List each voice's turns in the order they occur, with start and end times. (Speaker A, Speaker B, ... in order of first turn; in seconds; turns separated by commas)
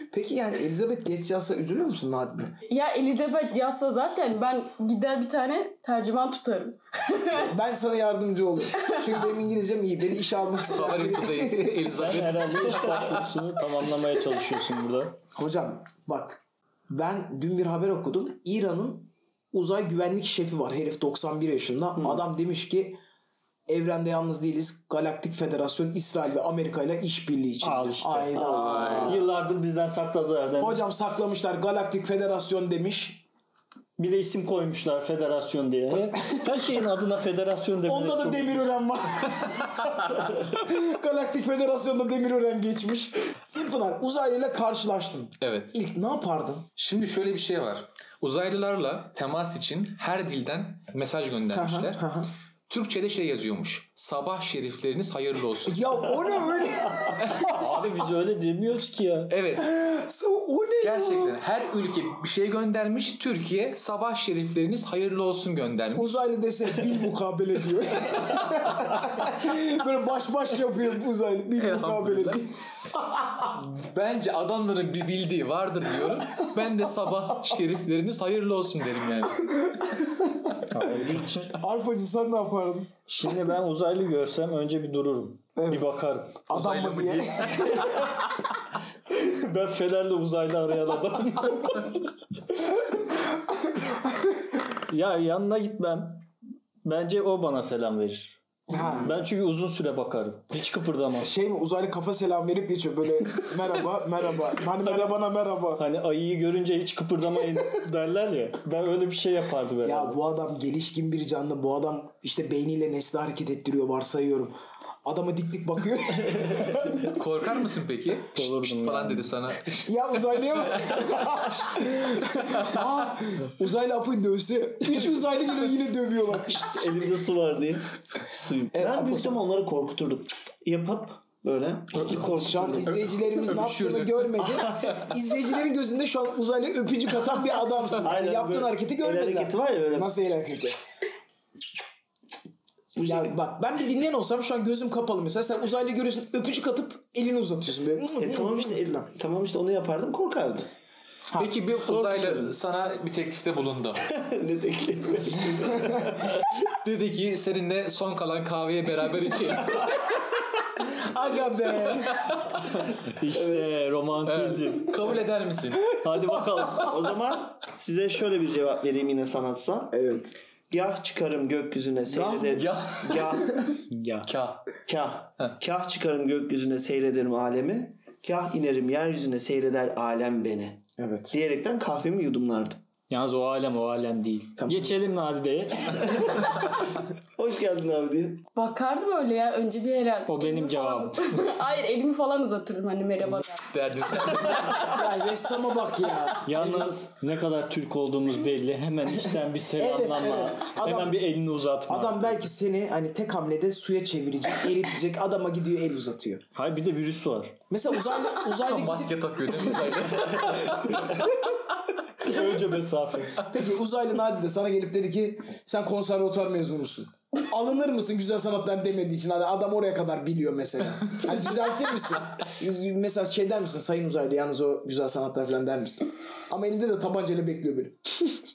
Speaker A: 0.1-2.5, Speaker B: 2.7-7.5, Speaker A: 7.3-11.9, Speaker B: 8.8-9.2, Speaker C: 10.7-13.3, Speaker D: 11.9-15.2, Speaker A: 15.3-23.0, Speaker A: 23.7-29.2, Speaker D: 27.6-30.8, Speaker E: 28.3-29.2, Speaker C: 28.5-29.1, Speaker A: 30.6-33.2, Speaker D: 34.0-38.8, Speaker A: 37.8-46.7, Speaker C: 45.4-45.7, Speaker C: 46.8-52.0, Speaker A: 51.5-52.3, Speaker C: 52.7-55.9, Speaker A: 55.6-57.4, Speaker C: 57.2-57.8, Speaker D: 57.4-59.3, Speaker C: 59.3-59.7, Speaker A: 59.6-61.4, Speaker C: 60.8-66.2, Speaker A: 65.9-73.4, Speaker C: 71.6-72.4, Speaker C: 73.4-79.5, Speaker A: 80.0-80.3, Speaker D: 80.7-81.5, Speaker A: 81.5-82.9, Speaker D: 83.1-86.5, Speaker A: 85.5-86.0, Speaker A: 86.5-87.8, Speaker C: 86.5-88.1, Speaker D: 89.2-92.0, Speaker A: 93.8-94.3, Speaker D: 94.9-96.3, Speaker D: 96.8-98.4, Speaker A: 98.7-99.1, Speaker D: 98.9-101.3, Speaker A: 101.2-105.8, Speaker D: 104.8-105.1, Speaker D: 105.7-110.2, Speaker A: 109.8-117.0, Speaker C: 116.9-119.9, Speaker D: 118.3-119.3, Speaker A: 119.8-126.9, Speaker C: 120.8-121.0, Speaker C: 122.4-122.9, Speaker E: 126.5-133.0, Speaker A: 128.7-129.4, Speaker A: 132.0-140.8, Speaker C: 132.9-135.1, Speaker E: 134.4-135.0, Speaker E: 138.0-140.2, Speaker E: 142.9-143.3, Speaker A: 143.0-149.0, Speaker E: 148.1-150.7, Speaker C: 151.3-154.0, Speaker E: 151.9-152.5, Speaker E: 154.0-156.5, Speaker C: 156.7-160.0, Speaker A: 160.8-162.2, Speaker C: 161.9-162.4, Speaker D: 163.0-164.9, Speaker E: 163.3-163.6, Speaker C: 164.2-166.0, Speaker D: 166.0-166.9, Speaker E: 166.8-170.0, Speaker A: 169.9-170.3, Speaker E: 170.7-173.7, Speaker A: 172.1-172.6, Speaker C: 172.5-173.6, Speaker D: 173.9-174.3, Speaker C: 174.2-174.7, Speaker E: 174.8-182.8, Speaker A: 181.0-181.3, Speaker D: 183.1-186.3, Speaker A: 184.6-184.9, Speaker E: 187.3-188.4, Speaker B: 188.5-193.7, Speaker D: 190.3-191.3, Speaker C: 193.7-195.0, Speaker A: 194.7-197.0, Speaker D: 196.4-202.5, Speaker A: 199.7-201.2, Speaker A: 201.9-206.4, Speaker D: 206.5-207.6, Speaker A: 207.7-209.2, Speaker C: 208.6-211.3, Speaker D: 212.2-213.4, Speaker A: 213.5-228.3